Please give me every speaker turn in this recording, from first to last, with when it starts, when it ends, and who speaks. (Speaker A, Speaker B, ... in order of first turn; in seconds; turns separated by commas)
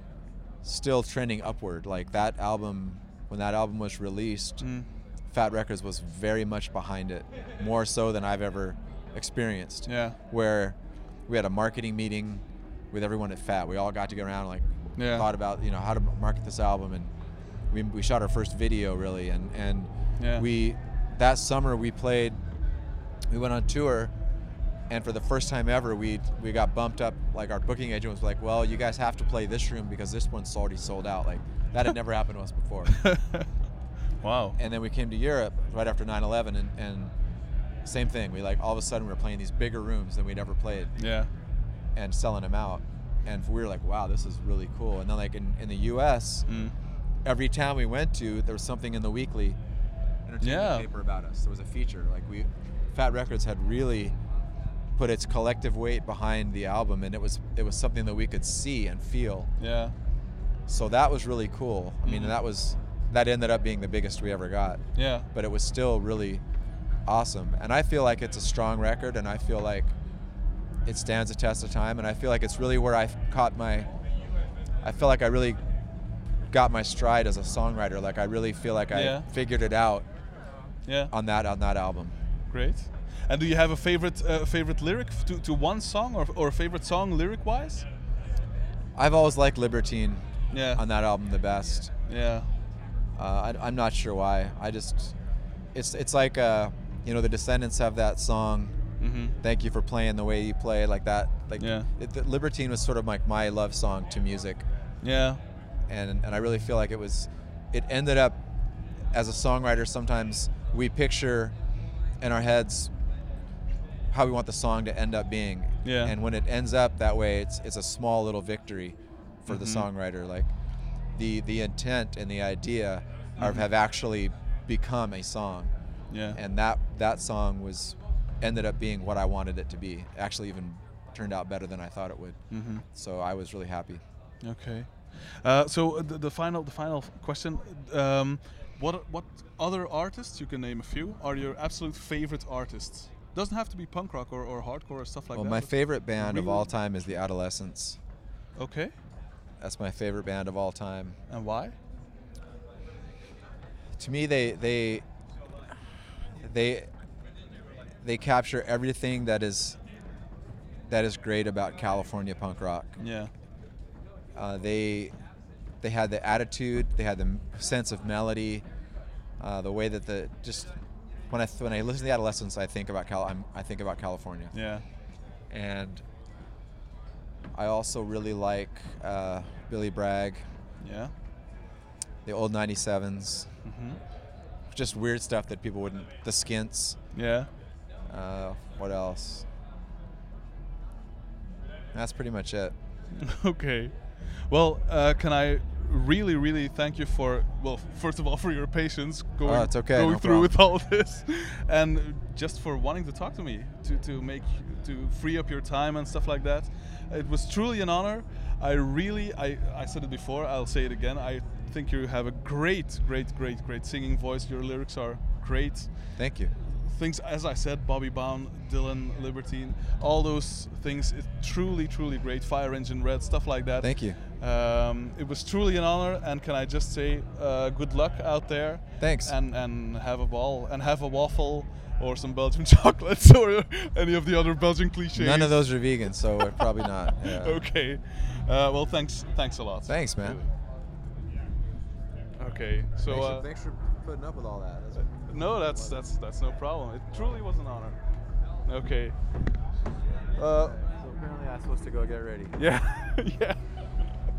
Speaker A: 0.6-4.7, Speaker B: 4.6-4.9, Speaker A: 5.3-17.1, Speaker B: 9.9-10.2, Speaker B: 15.0-15.3, Speaker A: 17.7-22.4, Speaker B: 20.2-20.4, Speaker A: 23.3-24.1, Speaker A: 24.9-33.1, Speaker B: 33.0-33.4, Speaker B: 34.2-34.6, Speaker A: 34.6-37.1, Speaker A: 37.9-40.9, Speaker B: 41.0-41.3, Speaker A: 42.0-46.5, Speaker B: 46.5-46.8, Speaker A: 47.2-49.6, Speaker A: 50.3-54.2, Speaker B: 50.4-50.9, Speaker A: 55.0-59.5, Speaker B: 59.6-60.0, Speaker A: 60.7-66.4, Speaker B: 62.0-62.4, Speaker B: 65.0-65.3, Speaker A: 67.1-69.9, Speaker A: 70.8-73.9, Speaker A: 74.8-75.6, Speaker A: 76.5-80.1, Speaker B: 78.9-79.3, Speaker B: 80.8-81.1, Speaker A: 81.1-82.2, Speaker B: 82.5-87.9, Speaker A: 89.0-91.9, Speaker B: 90.5-90.8, Speaker B: 92.1-92.5, Speaker A: 93.2-95.2, Speaker A: 95.7-98.8, Speaker B: 99.0-99.4, Speaker A: 99.4-104.7, Speaker B: 101.6-101.9, Speaker B: 105.0-105.4, Speaker A: 105.9-108.4, Speaker A: 109.1-111.6, Speaker A: 112.2-112.9, Speaker A: 114.1-120.5, Speaker B: 115.8-116.1, Speaker B: 119.5-119.9, Speaker A: 121.1-125.7, Speaker B: 123.4-123.7, Speaker B: 126.1-126.4, Speaker A: 126.3-134.0, Speaker B: 132.5-132.8, Speaker B: 134.4-146.7, Speaker A: 145.3-148.0, Speaker B: 148.6-148.9, Speaker A: 149.6-151.2, Speaker B: 151.3-151.8, Speaker A: 154.0-155.1, Speaker A: 156.4-156.9, Speaker A: 158.0-159.8, Speaker A: 160.9-163.0, Speaker B: 163.0-163.3, Speaker A: 164.3-165.1, Speaker A: 165.8-168.7, Speaker A: 169.4-170.7, Speaker A: 171.3-174.5, Speaker B: 174.5-174.8, Speaker A: 175.5-176.0, Speaker A: 177.5-180.5, Speaker B: 180.8-181.1, Speaker A: 182.2-183.6, Speaker B: 183.7-184.0, Speaker A: 184.7-187.0, Speaker B: 187.1-187.5, Speaker A: 188.1-189.5, Speaker A: 191.9-192.8, Speaker B: 193.2-216.2, Speaker A: 199.4-200.5, Speaker A: 216.2-216.5, Speaker B: 216.8-240.5, Speaker A: 223.8-224.2, Speaker A: 229.0-229.3, Speaker A: 235.2-237.7, Speaker A: 239.9-240.4, Speaker B: 242.4-243.5, Speaker A: 243.1-246.0, Speaker B: 245.2-248.0, Speaker B: 248.7-249.2, Speaker B: 250.4-250.8, Speaker A: 250.5-252.6, Speaker B: 252.6-253.9